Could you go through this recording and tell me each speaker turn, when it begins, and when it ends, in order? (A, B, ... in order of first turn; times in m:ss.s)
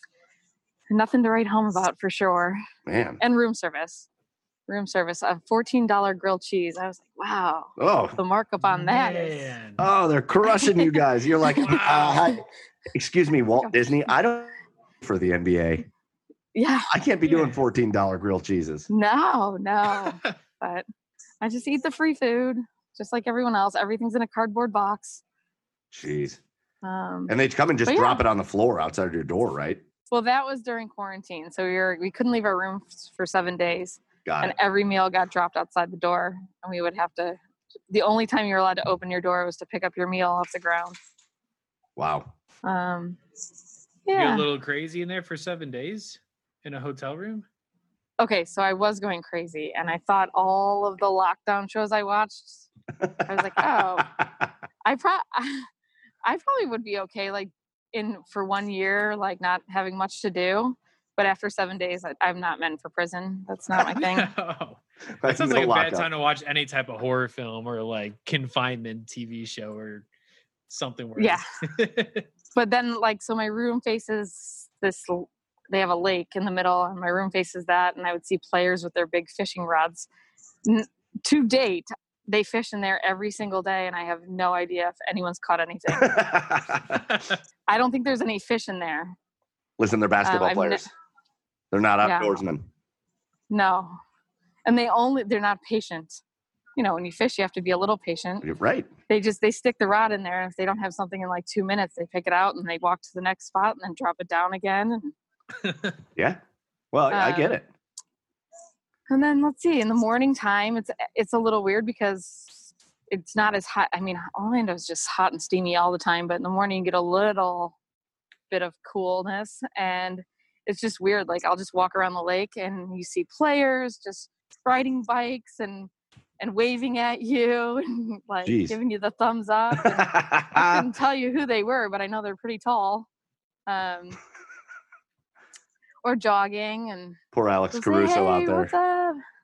0:00.9-0:02.6 A
0:02.9-0:03.2 B
0:03.2-0:04.1 A
0:04.7-0:09.5 A
0:07.8-0:08.2 B
0:08.6-0:09.8 C
0:09.8-0:15.9 B
0:10.6-0:10.9 A
0:11.6-0:12.3 C
0:13.6-0:14.0 A
0:16.6-0:16.9 A
0:16.9-0:18.9 B
0:17.3-0:17.6 C
0:18.9-0:20.8 A
0:20.1-0:20.4 C
0:21.4-0:25.2 A
0:25.9-0:26.4 B
0:26.8-0:27.3 A
0:27.3-0:29.8 B
0:27.9-0:28.2 A
0:30.1-0:37.4 A
0:34.2-0:34.6 B
0:37.9-0:41.0 A
0:42.0-0:42.3 B
0:42.6-0:43.2 A
0:44.1-0:44.5 A
0:44.1-0:47.5 C
0:48.2-0:52.7 A
0:53.1-0:54.2 B
0:53.3-0:54.1 A
0:54.8-0:55.7 A
0:56.2-1:04.3 A
1:03.8-1:10.1 C
1:05.2-1:06.1 B
1:10.7-1:12.3 C
1:11.2-1:11.4 A
1:12.5-1:20.1 A
1:20.6-1:26.5 A
1:26.0-1:26.8 B
1:27.7-1:29.2 A
1:29.8-1:30.9 B
1:30.2-1:30.8 A
1:31.7-1:32.7 B
1:32.0-1:32.4 A
1:33.5-1:34.0 A
1:34.7-1:36.2 A
1:36.8-1:38.5 A
1:38.4-1:38.9 B
1:39.1-1:45.1 A
1:45.6-1:45.9 C
1:46.2-1:46.4 B
1:46.9-1:47.7 B
1:47.1-1:47.5 A
1:49.1-1:57.8 A
1:58.5-2:13.1 A
2:08.4-2:08.8 B
2:09.8-2:10.9 B
2:13.7-2:14.2 A
2:16.0-2:17.2 A
2:17.3-2:18.7 B
2:17.7-2:19.2 A